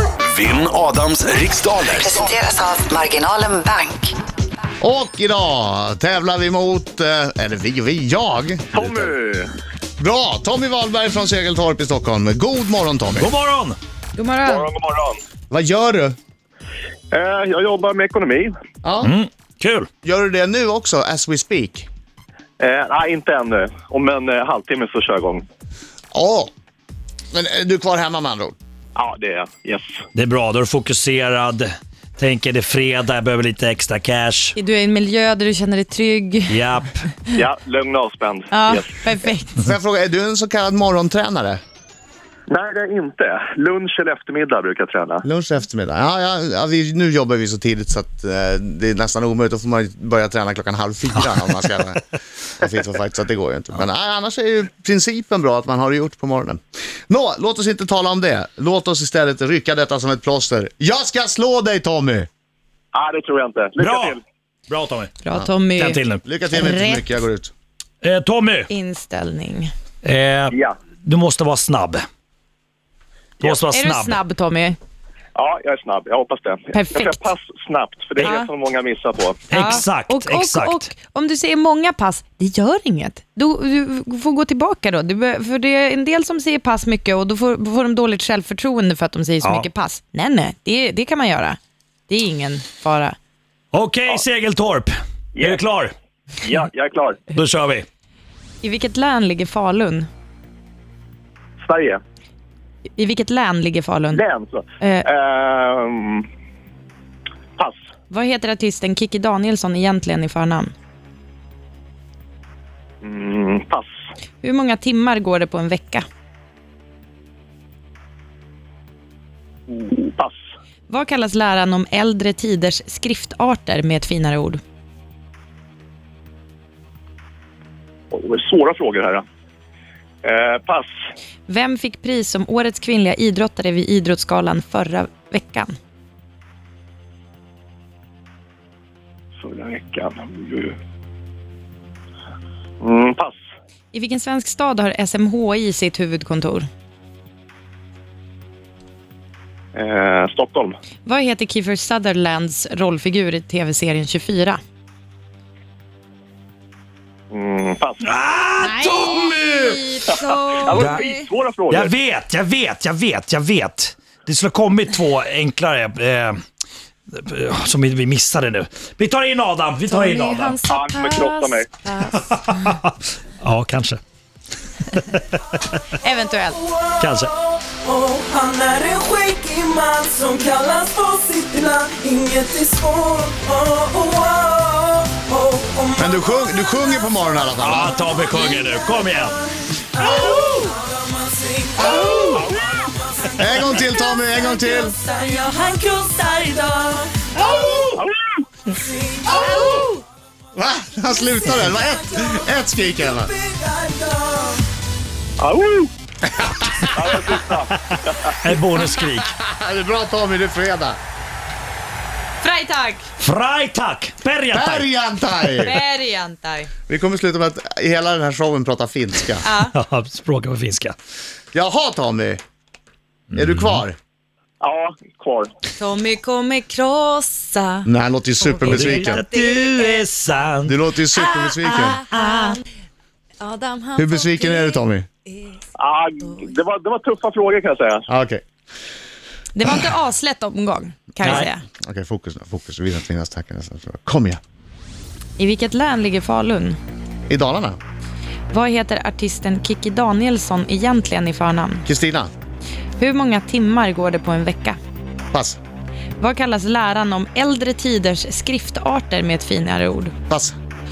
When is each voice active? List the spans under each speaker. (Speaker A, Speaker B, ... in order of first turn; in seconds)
Speaker A: 0.2-2.3
Speaker B: 1.9-4.2
Speaker C: 4.8-9.1, 10.0-13.3, 15.5-16.1, 18.8-19.1, 20.0-21.9, 26.1-26.5, 27.3-28.6, 39.5-41.6, 45.2-62.3, 66.2-67.5, 186.0-188.0, 191.8-192.5, 193.4-194.9, 199.3-199.9, 200.5-203.3, 206.2-207.2, 208.8-211.0, 214.5-215.8, 216.9-219.4, 221.5-222.4, 223.3-224.0, 227.8-229.2, 230.7-232.0, 234.0-235.1, 238.1-238.4, 241.2-244.4, 247.3-247.8, 251.8-252.3, 255.3-255.6, 260.3-260.5
Speaker D: 8.7-9.5, 14.4-15.2, 17.1-18.5, 22.6-25.4, 28.9-29.9, 37.3-38.9, 42.5-45.2, 62.9-64.2, 75.3-79.4, 95.3-95.6, 96.4-97.2, 101.6-102.0, 104.1-106.2, 113.0-113.9, 119.7-120.3, 128.1-129.2, 130.2-130.9, 139.4-140.7, 142.8-143.4, 149.7-150.7, 157.3-158.1, 160.1-161.9, 170.7-171.7, 192.4-192.8, 198.0-198.4, 205.4-205.9, 206.9-208.3, 224.6-225.5, 235.8-238.1
Speaker E: 13.1-13.8, 19.0-19.9, 30.1-34.5, 36.5-37.1, 63.8-65.1, 65.8-66.2, 68.0-68.7, 70.0-72.0, 73.4-74.2, 79.5-80.9, 89.4-89.7, 93.7-95.9, 97.3-97.8, 158.0-159.8, 160.7-161.0, 161.7-166.4, 167.1-170.6, 172.1-174.0, 174.9-175.8, 177.0-177.3, 187.6-189.4, 207.7-209.3, 213.2-214.9, 219.7-221.0, 223.3-223.8, 228.6-230.8, 232.2-232.4, 241.2-241.5
Speaker F: 14.2-14.7, 34.5-36.6, 38.5-39.6, 65.2-67.1, 68.7-69.7, 73.7-74.8, 76.7-77.2, 78.2-78.5, 79.5-93.2, 98.6-100.1, 103.0-104.2, 104.8-105.1, 108.1-110.7, 114.4-116.0, 120.9-124.6, 131.5-135.7, 143.9-146.7, 151.0-154.6, 158.6-161.2, 169.9-172.7, 176.0-176.6, 195.4-196.9, 199.4-199.8, 212.4-213.1, 215.6-216.7, 219.4-219.7, 225.8-227.9, 228.4-230.0, 231.2-232.6, 233.4-234.8, 239.5-241.6, 245.4-246.8, 248.5-251.8, 253.0-254.8, 256.2-260.1
Speaker G: 177.6-186.7, 188.3-188.8, 190.0-192.4, 193.3-197.4, 203.4-204.6